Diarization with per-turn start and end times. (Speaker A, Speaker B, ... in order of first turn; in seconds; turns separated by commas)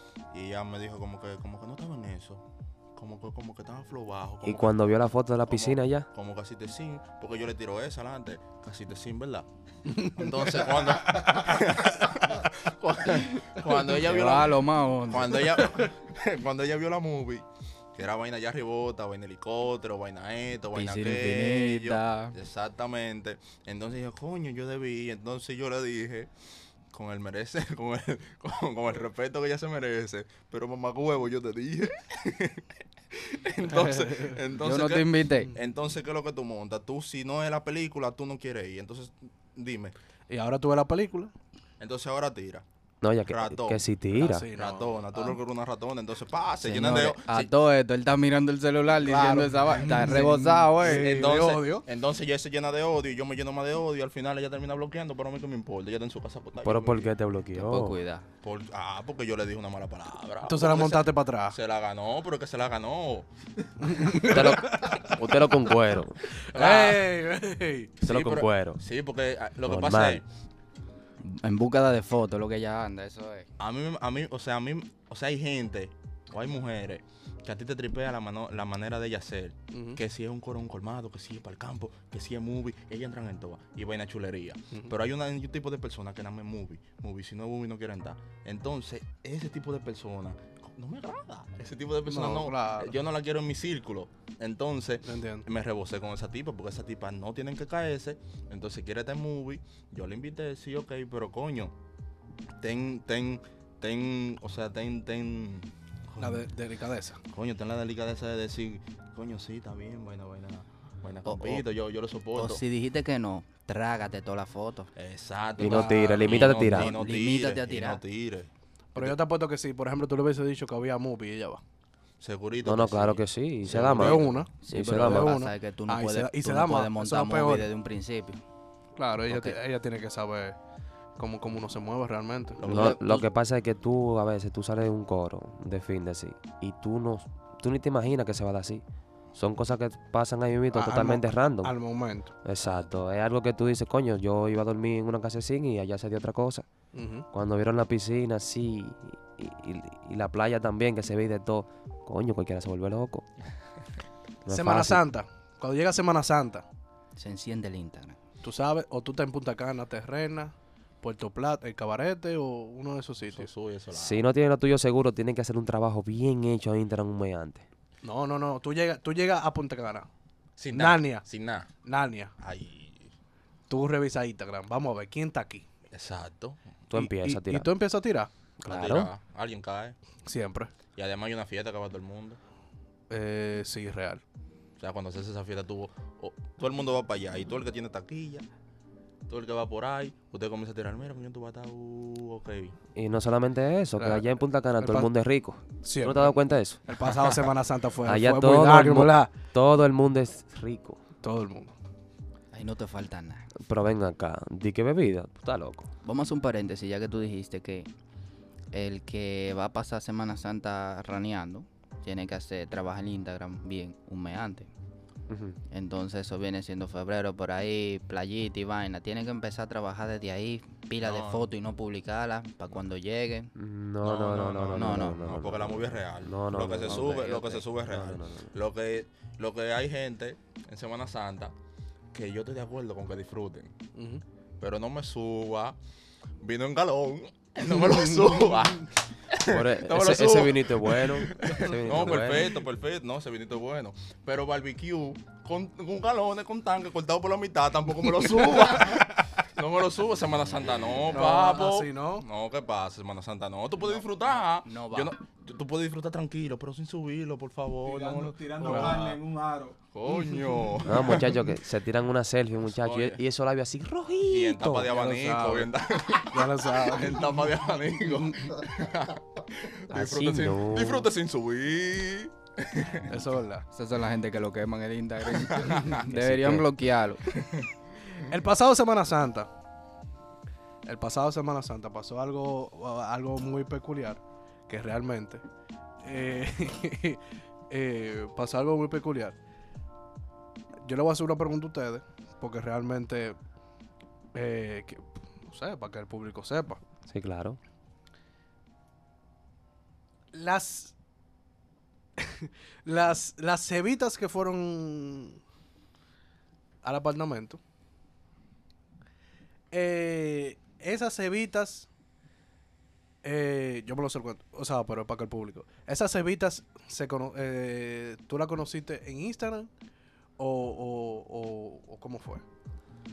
Speaker A: 0.3-2.4, Speaker A: 3.0-4.8, Speaker B: 4.4-6.1, Speaker A: 5.5-26.3, Speaker C: 13.8-15.7, Speaker C: 20.8-22.4, Speaker A: 26.9-40.0, Speaker D: 33.8-34.3, Speaker C: 34.6-35.5, Speaker D: 40.3-41.3, Speaker A: 41.8-42.6, Speaker B: 43.0-44.5, Speaker A: 43.3-43.8, Speaker D: 44.1-45.3, Speaker A: 44.5-47.5, Speaker C: 46.6-51.1, Speaker D: 49.1-51.9, Speaker A: 50.8-57.1, Speaker B: 56.6-58.0, Speaker C: 57.5-58.3, Speaker A: 58.4-63.3, Speaker D: 60.4-61.6, Speaker D: 63.8-65.2, Speaker A: 63.9-64.4, Speaker B: 64.2-66.2, Speaker D: 66.4-68.0, Speaker A: 66.5-67.1, Speaker A: 68.0-70.3, Speaker B: 68.0-68.8, Speaker B: 69.7-70.2, Speaker C: 71.2-73.5, Speaker A: 73.6-101.7, Speaker D: 79.7-80.0, Speaker D: 92.1-93.0, Speaker D: 95.0-95.5, Speaker A: 102.6-106.4, Speaker D: 106.2-107.2, Speaker A: 107.3-112.6, Speaker C: 111.3-111.7, Speaker C: 112.3-114.9, Speaker A: 115.0-119.2, Speaker B: 115.6-117.0, Speaker D: 115.6-116.3, Speaker C: 116.2-118.0, Speaker D: 118.9-121.6, Speaker A: 122.2-124.3, Speaker B: 122.6-125.3, Speaker D: 123.8-127.7, Speaker C: 124.5-128.4, Speaker D: 129.0-130.6, Speaker C: 129.3-129.6, Speaker D: 131.2-132.6, Speaker A: 132.6-133.0, Speaker C: 132.6-133.3, Speaker B: 132.7-138.8, Speaker B: 139.3-141.7, Speaker D: 140.7-142.3, Speaker B: 142.4-146.7, Speaker D: 146.9-147.3, Speaker B: 147.3-153.2, Speaker B: 154.4-155.0, Speaker D: 154.5-156.7, Speaker C: 157.2-158.2, Speaker D: 158.4-163.5, Speaker A: 163.3-164.2, Speaker B: 163.9-167.7, Speaker D: 168.0-170.1, Speaker A: 170.6-171.7, Speaker D: 170.7-171.2, Speaker D: 171.8-172.3, Speaker A: 172.4-173.1, Speaker D: 173.7-175.6, Speaker A: 175.9-176.6, Speaker B: 176.9-177.7, Speaker D: 176.9-178.3, Speaker B: 178.6-179.1, Speaker A: 178.7-180.0, Speaker D: 180.2-180.7, Speaker A: 181.0-182.4, Speaker D: 183.1-184.2, Speaker A: 184.8-188.5, Speaker A: 189.3-192.8, Speaker B: 192.9-196.8, Speaker D: 194.0-195.1, Speaker D: 195.8-199.3, Speaker B: 198.1-201.0, Speaker D: 201.2-201.7, Speaker C: 202.5-203.5, Speaker B: 203.6-205.9, Speaker C: 206.0-207.9, Speaker C: 208.7-214.7, Speaker B: 215.3-215.6, Speaker C: 215.7-223.5, Speaker A: 221.0-221.5, Speaker B: 223.6-228.5, Speaker A: 224.0-231.5, Speaker C: 224.8-225.2, Speaker C: 226.8-227.7, Speaker A: 232.1-233.7, Speaker D: 233.9-234.2, Speaker A: 234.6-235.8, Speaker A: 236.4-259.2, Speaker B: 239.5-242.6, Speaker C: 250.2-251.4, Speaker D: 251.1-252.2, Speaker C: 254.7-255.2, Speaker E: 257.8-259.8, Speaker D: 258.6-259.1, Speaker A: 259.9-261.3, Speaker B: 260.9-264.9, Speaker A: 262.7-263.2, Speaker A: 264.3-273.2, Speaker D: 264.9-265.7, Speaker D: 266.3-267.5, Speaker B: 269.9-271.1, Speaker D: 273.1-273.7, Speaker C: 273.7-277.2, Speaker A: 275.3-276.1, Speaker B: 276.0-276.7, Speaker A: 277.3-277.7, Speaker D: 278.3-279.5, Speaker D: 280.9-285.4, Speaker D: 286.0-289.4, Speaker D: 290.9-293.4, Speaker D: 294.3-296.8, Speaker B: 297.1-297.6, Speaker D: 300.3-300.9, Speaker D: 302.2-305.4, Speaker D: 306.8-307.6, Speaker D: 309.7-311.9, Speaker D: 313.2-319.7, Speaker D: 320.4-322.4